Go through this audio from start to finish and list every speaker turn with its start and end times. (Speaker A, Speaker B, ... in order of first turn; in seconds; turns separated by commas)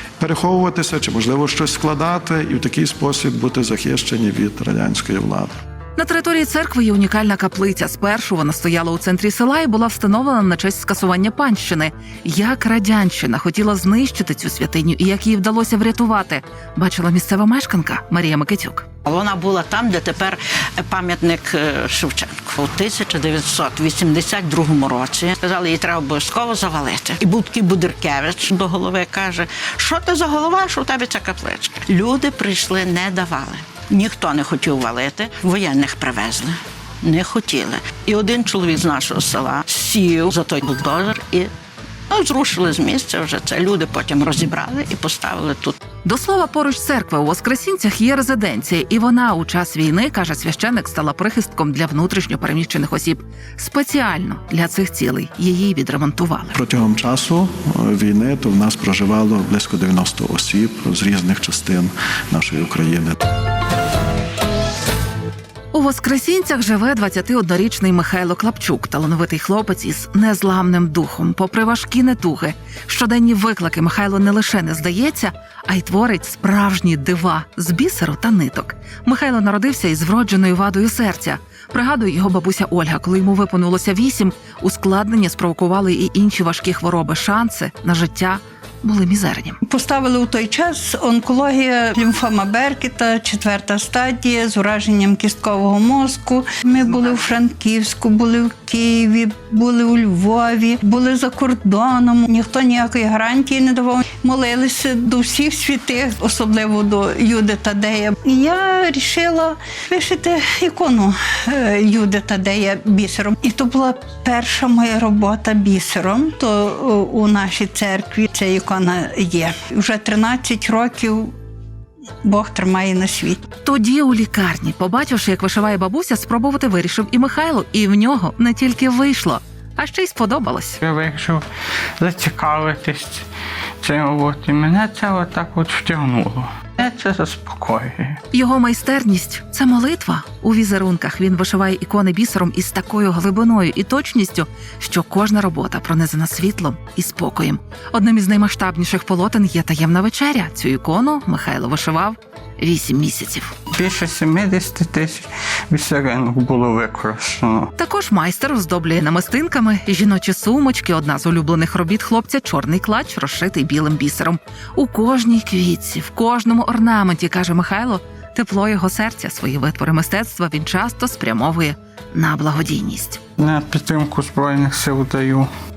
Speaker A: 0.2-5.5, Speaker B: 6.0-18.9, Speaker C: 19.1-41.5, Speaker C: 42.1-45.8, Speaker B: 46.0-56.5, Speaker A: 56.5-63.1, Speaker B: 65.7-89.6, Speaker D: 89.6-121.3, Speaker D: 122.2-123.4, Speaker B: 123.6-130.8, Speaker E: 130.8-131.4, Speaker E: 132.0-133.2, Speaker E: 133.8-138.2, Speaker B: 138.3-153.5, Speaker E: 153.7-157.7, Speaker B: 157.8-173.2, Speaker E: 173.4-175.5